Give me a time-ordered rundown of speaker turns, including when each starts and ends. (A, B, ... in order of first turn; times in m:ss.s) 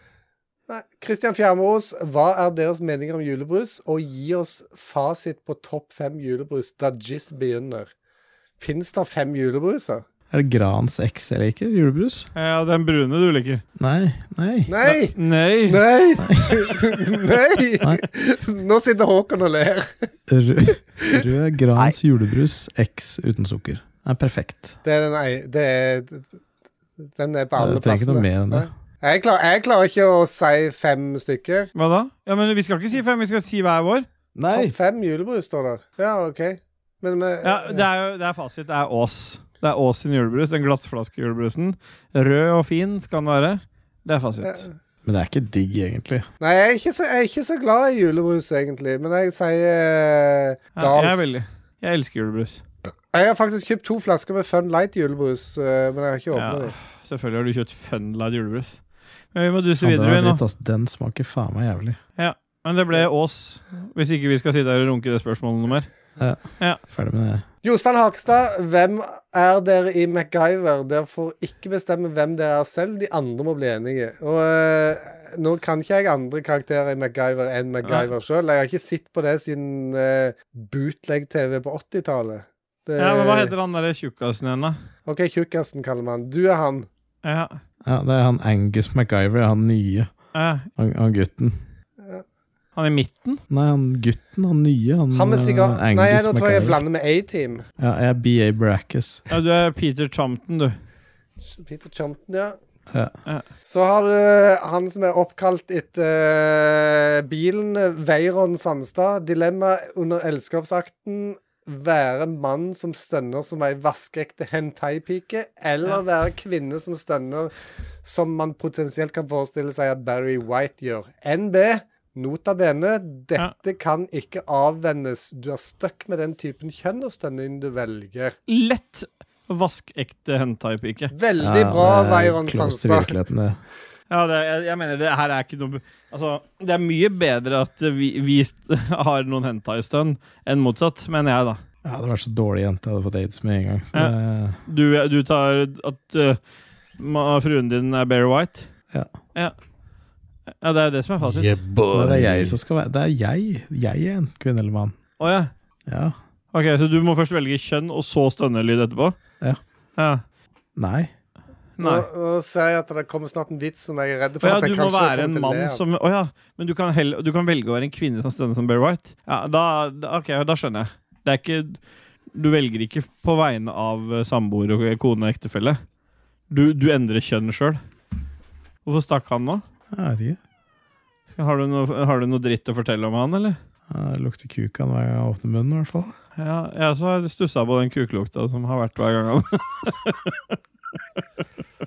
0:00.7-0:07.9 A
0:08.6-0:10.0 A
0:10.3-0:12.3 B
0:12.4-0:13.6 C
0:13.8-0:14.7 B
0:14.7-0:20.1 A
0:14.8-0:15.9 C
0:16.2-0:16.7 B
0:20.3-0:24.8 B
0:24.8-0:26.4 A
0:27.0-0:31.7 A
0:27.6-0:28.7 B
0:31.8-0:34.1 C
0:34.4-0:34.8 B
0:34.5-0:37.8 A
0:37.4-0:44.7 C
0:45.0-0:46.3 B
0:46.4-0:51.4 A
0:50.8-0:52.6 C
0:53.1-0:56.7 A
0:56.4-0:58.8 C
0:59.3-1:00.4 C
0:59.8-1:02.0 B
1:02.2-1:05.9 C
1:06.2-1:07.4 B
1:07.6-1:23.5 A
1:23.0-1:24.8 C
1:25.1-1:26.9 A
1:27.2-1:27.6 C
1:27.8-1:30.2 B
1:30.4-1:30.7 C
1:30.8-1:31.6 B
1:32.8-1:33.4 C
1:33.5-1:36.8 B
1:35.1-1:37.7 A
1:37.8-1:39.2 B
1:39.3-1:40.8 C
1:41.4-1:42.6 A
1:43.7-1:57.5 A
1:58.0-2:08.4 A
2:08.5-2:11.1 C
2:11.1-2:13.2 A
2:11.4-2:13.6 B
2:14.1-2:21.6 C
2:21.8-2:24.6 B
2:24.7-2:26.4 C
2:27.0-2:28.7 C
2:30.6-2:31.6 C
2:31.4-2:35.0 B
2:35.2-2:35.5 C
2:35.9-2:36.2 B
2:36.5-2:39.2 C
2:40.8-2:41.1 B
2:41.8-2:42.1 C
2:41.8-2:45.8 A
2:44.4-2:51.8 C
2:52.3-2:55.8 C
2:56.5-2:57.8 C
2:58.8-2:59.6 C
2:59.9-3:00.4 B
3:01.4-3:03.6 C
3:03.9-3:06.1 B
3:06.4-3:10.6 C